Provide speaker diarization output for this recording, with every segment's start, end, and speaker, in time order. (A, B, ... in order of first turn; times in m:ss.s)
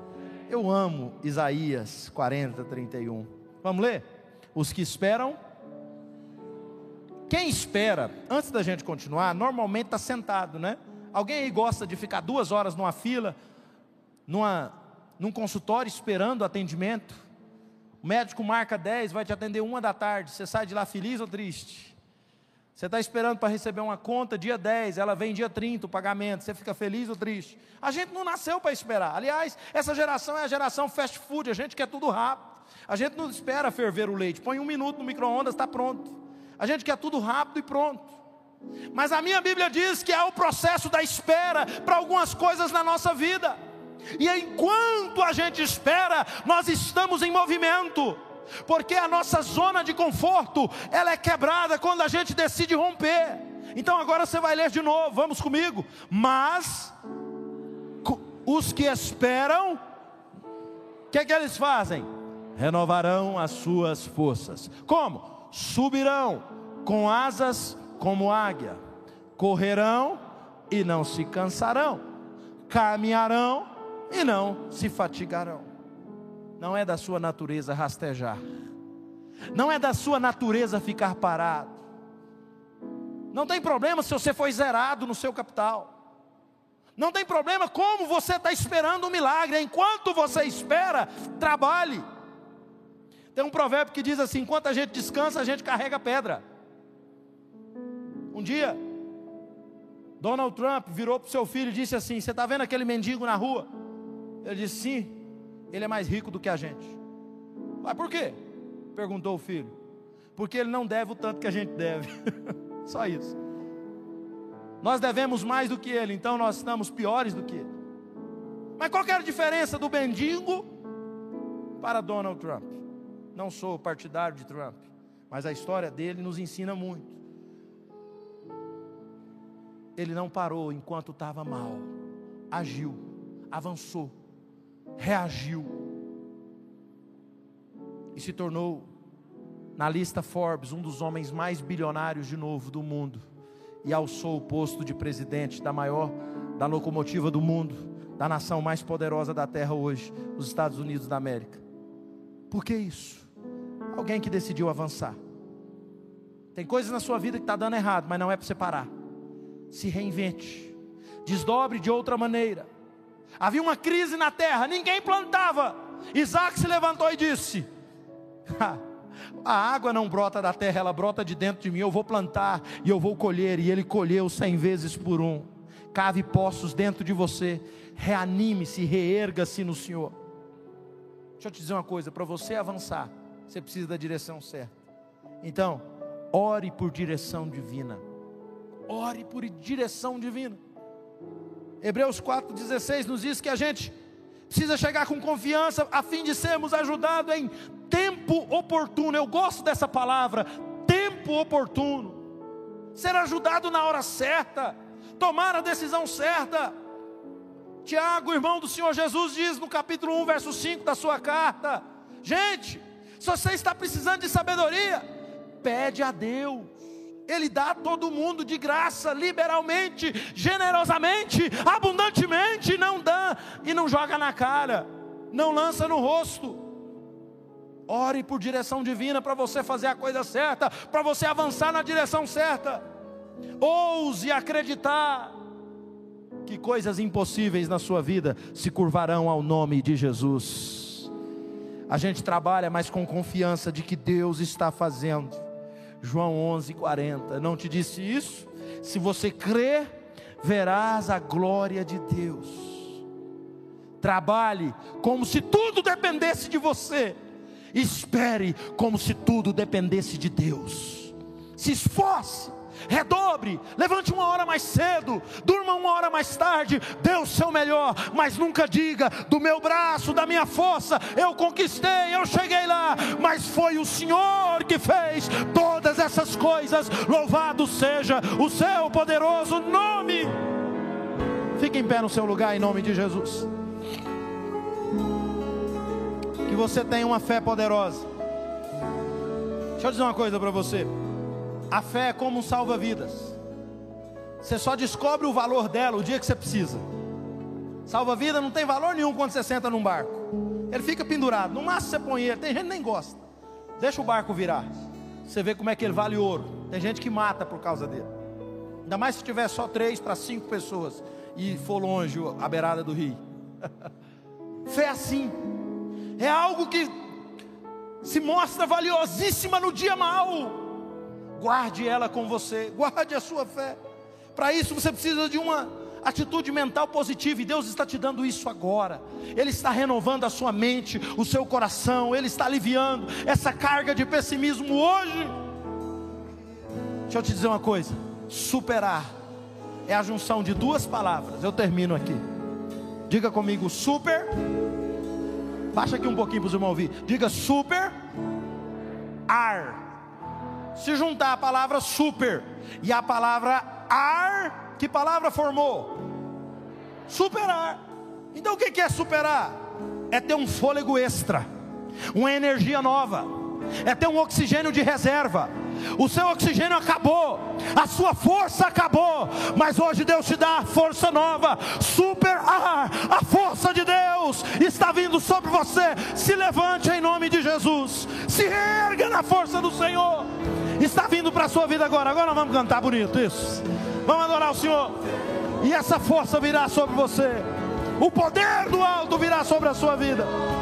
0:00.5-0:05.4 A
0:07.3-0:13.4 A
0:14.3-0:17.2 A
0:18.0-0:22.0 A
0:22.8-0:38.1 A
0:38.9-0:43.6 A
0:44.2-0:56.9 A
0:58.0-0:59.8 A
1:01.1-1:08.8 A
1:09.4-1:10.2 A
1:10.7-1:12.0 A
1:12.7-1:15.6 A
1:16.6-1:18.4 A
1:19.5-1:21.8 A
1:23.3-1:25.9 A
1:27.0-1:32.0 A
1:33.3-1:36.4 A
1:38.3-1:38.8 A
1:40.2-1:43.7 A
1:44.4-1:47.0 A
1:47.8-1:48.4 A
1:49.0-1:49.7 A
1:50.4-1:53.4 A
1:54.8-1:57.7 A
1:58.8-2:00.7 A
2:01.8-2:02.8 A
2:03.3-2:07.2 A
2:10.0-2:11.9 A
2:12.5-2:14.1 A
2:15.0-2:15.8 A
2:18.2-2:18.9 A
2:19.8-2:23.2 A
2:23.8-2:31.6 A
2:32.5-2:33.3 A
2:33.9-2:35.2 A
2:36.5-2:38.9 A
2:39.7-2:42.7 A
2:43.4-2:47.7 A
2:48.5-2:48.8 A
2:49.4-3:00.2 A
3:01.4-3:04.7 A
3:05.4-3:08.0 A
3:08.9-3:10.6 A
3:11.8-3:14.0 A
3:14.5-3:22.2 A
3:23.0-3:26.8 A
3:27.8-3:35.0 A
3:35.6-3:36.8 A
3:37.3-3:46.6 A
3:47.9-3:52.8 A
3:53.6-3:55.4 A
3:56.4-4:01.1 A
4:01.9-4:05.4 A
4:06.0-4:09.9 A
4:10.4-4:13.0 A
4:14.0-4:17.2 A
4:17.7-4:40.3 A
4:41.6-4:43.5 A
4:46.5-4:48.1 A
4:49.8-4:50.9 A
4:51.7-4:53.4 A
4:54.4-4:56.8 A
4:57.9-5:03.2 A
5:03.8-5:04.7 A
5:05.3-5:08.1 A
5:08.8-5:13.2 A
5:14.7-5:15.4 A
5:16.2-5:16.9 A
5:18.0-5:20.7 A
5:21.4-5:23.8 A
5:24.4-5:35.3 A
5:37.1-5:39.1 A
5:39.9-5:42.2 A
5:43.1-5:44.3 A
5:45.7-5:47.9 A
5:49.3-5:49.9 A
5:50.8-5:56.0 A
5:57.1-5:57.8 A
5:58.3-5:59.6 A
6:00.1-6:01.5 A
6:02.1-6:24.9 A
6:25.6-6:27.4 A
6:28.0-6:30.3 A